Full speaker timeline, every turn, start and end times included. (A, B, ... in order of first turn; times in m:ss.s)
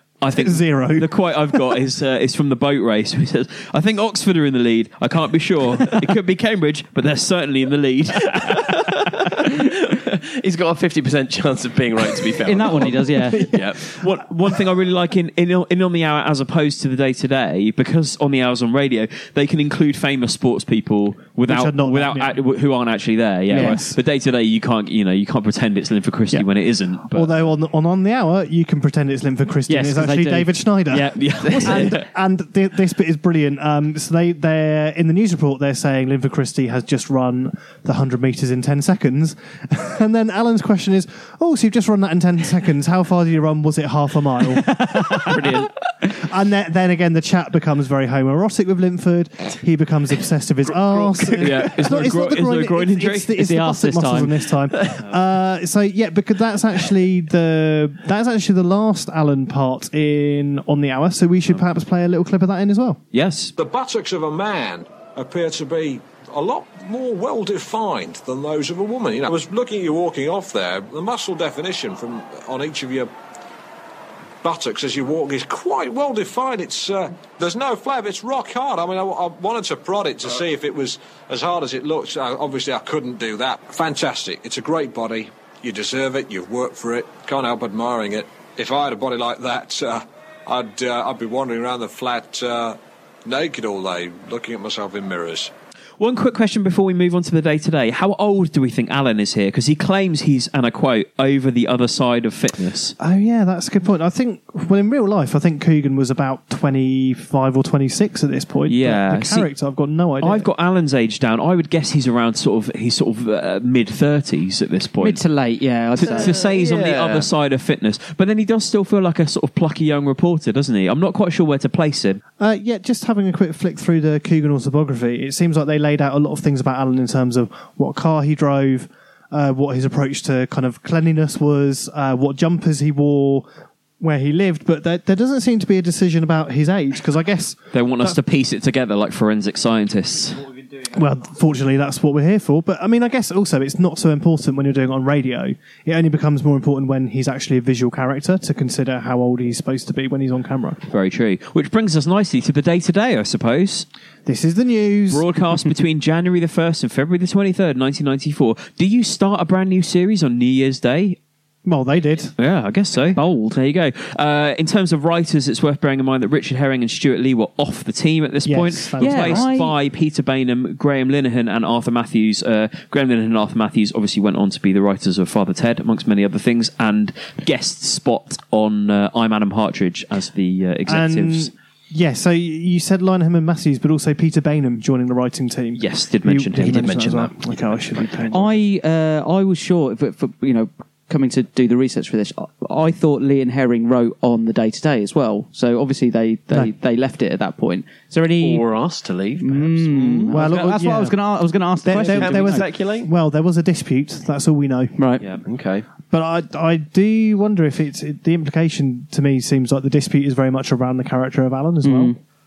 0:00.2-0:09.1 A
0:00.3-0:01.1 B
0:08.4-0:13.9 C
0:12.4-0:13.6 D
0:13.9-0:27.3 A
0:21.5-0:22.4 B
0:23.5-0:24.0 B
0:23.5-0:23.8 D
0:27.1-0:45.5 B
0:29.7-0:30.6 D
0:30.9-0:32.0 A
0:44.7-0:45.1 D
0:45.3-0:45.7 C
0:46.2-1:03.0 B
0:50.8-0:52.0 C
0:51.4-0:53.4 A
0:53.4-0:54.4 D
1:03.1-1:03.5 A
1:03.6-1:13.1 E
1:14.4-1:35.5 E
1:36.0-1:42.9 A
1:43.0-1:50.5 B
1:48.7-1:49.5 A
1:50.2-1:55.2 A
1:55.0-1:56.4 D
1:56.0-2:02.2 A
1:56.0-1:57.3 C
2:02.4-2:13.5 B
2:14.0-2:18.2 B
2:17.7-2:20.5 A
2:20.8-2:30.8 B
2:30.9-2:33.9 A
2:34.3-2:35.3 B
2:35.1-2:41.2 A
2:41.7-2:42.3 B
2:42.4-3:01.5 A
2:43.2-2:43.6 D
2:48.4-2:49.5 B
2:49.0-2:49.8 D
3:00.9-3:08.5 B
3:05.8-3:07.0 A
3:06.6-3:08.4 C
3:08.3-3:18.7 D
3:18.4-3:20.5 C
3:19.4-3:22.7 D
3:20.3-3:21.2 B
3:21.8-3:25.0 B
3:21.9-3:23.1 C
3:25.0-3:25.2 D
3:25.4-3:25.9 C
3:26.1-3:32.2 B
3:31.8-3:32.2 D